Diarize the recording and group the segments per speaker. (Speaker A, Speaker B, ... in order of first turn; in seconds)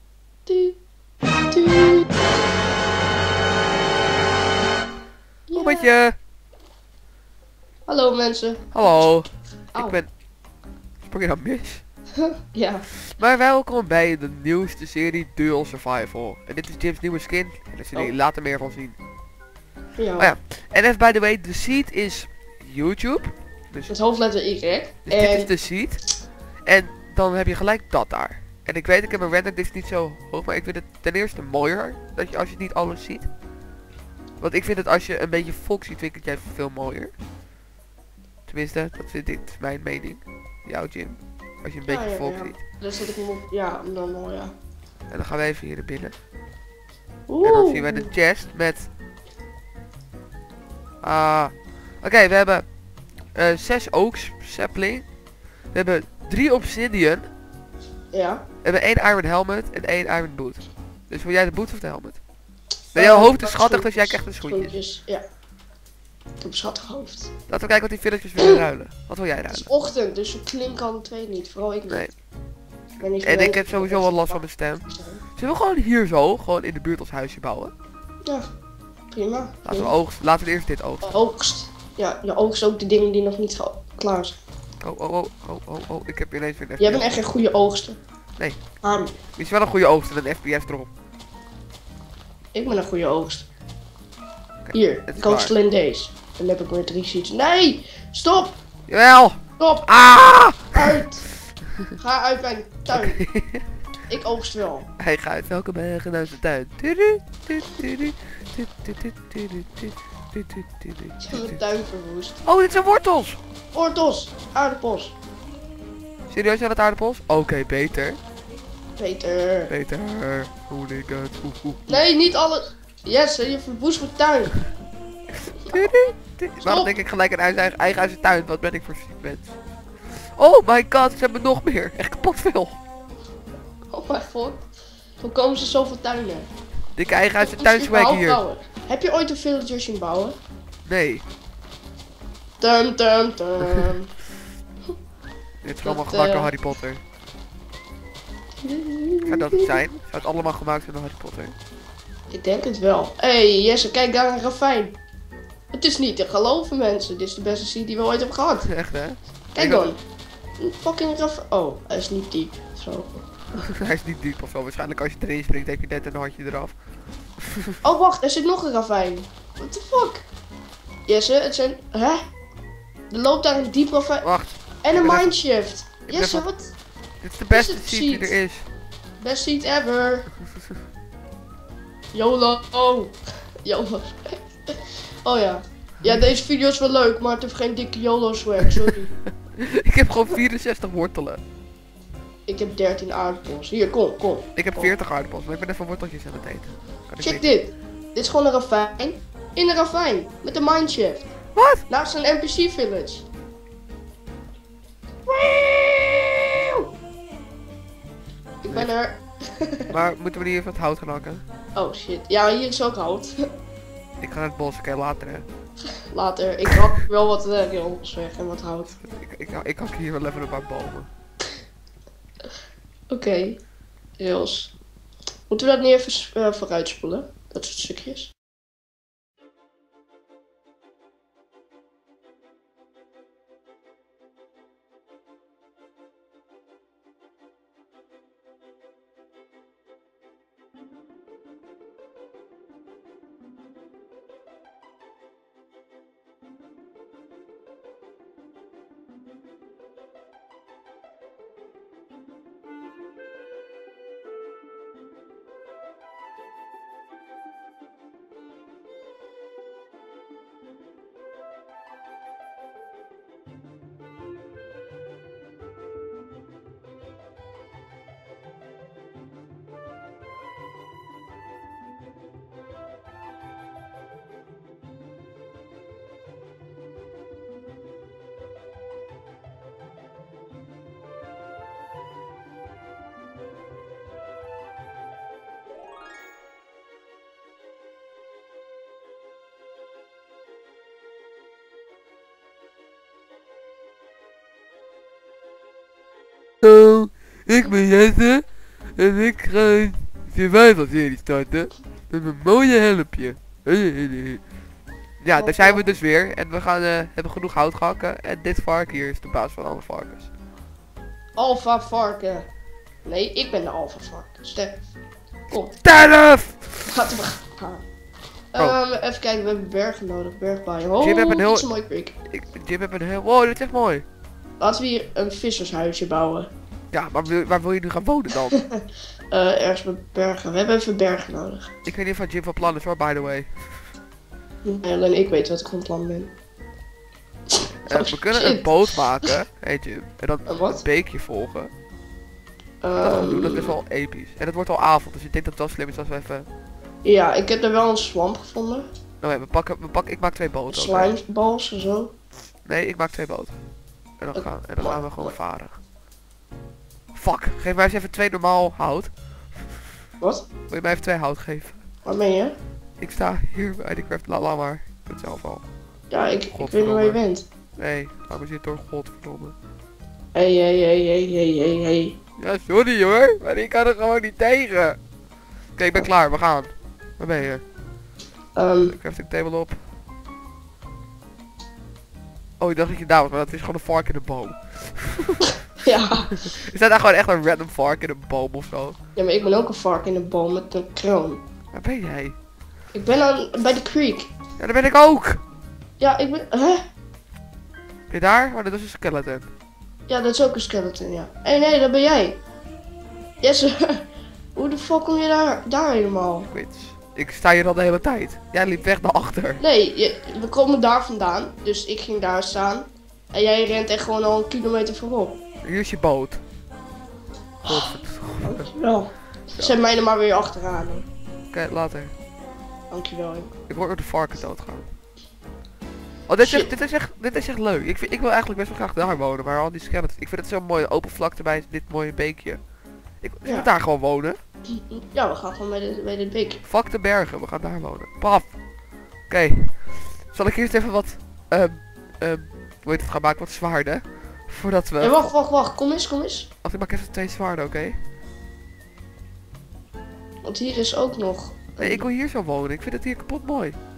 Speaker A: 0.5-0.8, 1.5-2.1, 5.5-5.9, 7.8-9.1, 12.2-12.9, 20.0-20.4, 23.9-25.5, 41.9-44.5, 47.3-48.1, 58.1-58.4, 62.9-65.2, 66.4-67.3, 69.5-72.1, 73.0-75.2, 79.1-79.9, 81.0-84.4, 86.8-88.0, 88.8-89.2, 92.5-93.5, 94.7-98.6, 99.6-99.9, 100.7-101.2, 102.0-103.2, 104.1-104.9, 111.2-112.4, 113.7-115.1, 119.0-119.7, 121.9-124.6, 125.6-125.9, 126.6-126.9, 133.9-134.6, 135.2-136.5, 137.4-140.4, 142.6-144.1, 145.8-146.5, 148.6-149.8, 152.3-155.0, 155.7-158.7, 159.5-160.0, 160.6-163.7, 167.8-170.2, 171.1-172.2, 173.1-174.3, 174.8-176.7, 177.5-178.4, 179.2-180.3, 182.1-189.1, 192.5-194.9, 197.2-201.3, 201.9-203.2, 205.3-206.9, 208.6-209.9, 211.7-213.4, 216.0-218.9, 223.1-223.6, 224.2-224.7, 225.5-228.3, 305.3-305.9, 311.4-312.4, 313.0-314.8, 315.5-315.8, 316.9-317.8, 318.5-322.1, 324.6-326.5, 328.5-331.7, 334.6-336.3, 337.5-339.3, 340.4-340.8, 342.8-343.7, 347.0-348.9, 350.7-352.1, 354.3-355.3, 360.2-360.4, 362.0-362.6, 366.1-367.5, 370.3-372.2, 378.5-378.9, 385.8-386.6, 389.1-391.4, 392.9-394.3, 396.0-396.8, 400.1-402.4, 403.4-406.5, 409.6-415.4, 418.4-421.1, 422.9-423.5, 426.4-426.7, 433.4-433.7, 434.7-436.6, 445.0-446.5, 450.4-452.1
Speaker B: 5.5-6.2, 8.7-10.1, 11.0-11.8, 13.1-19.0, 20.2-23.9, 25.1-26.1, 26.6-33.3, 34.4-37.1, 38.5-42.6, 45.1-46.1, 47.4-48.9, 51.0-52.7, 53.3-55.0, 55.7-57.2, 58.6-62.2, 62.9-64.8, 67.5-69.7, 73.2-77.7, 79.6-81.2, 84.8-87.2, 89.4-90.9, 94.7-95.5, 98.9-101.0, 102.9-103.7, 105.0-111.6, 112.4-113.4, 116.3-118.2, 119.7-122.0, 125.3-129.6, 130.1-132.8, 136.9-138.4, 140.8-141.2, 145.6-147.0, 149.3-151.5, 158.6-159.9, 163.7-166.7, 167.4-167.8, 174.2-175.3, 176.1-176.5, 177.2-178.7, 189.5-191.4, 194.6-197.4, 201.5-201.8, 209.9-211.4, 214.2-215.5, 219.0-221.1, 296.6-304.4, 305.2-310.3, 315.8-316.9, 321.0-321.7, 322.3-324.0, 326.9-328.6, 331.8-333.8, 337.9-341.7, 343.0-346.5, 349.2-351.1, 352.6-353.5, 354.2-355.8, 357.1-359.9, 360.7-361.8, 363.0-365.6, 366.5-367.2, 367.8-369.5, 372.4-375.0, 375.8-377.6, 378.8-379.8, 382.6-385.6, 386.4-389.0, 391.7-392.3, 394.6-395.4, 398.1-399.5, 406.5-409.6, 415.6-416.4, 417.6-418.7, 421.5-422.1, 423.7-424.9, 426.3-432.6, 433.2-434.4, 436.6-438.6, 439.2-445.3, 446.6-448.0, 451.8-453.8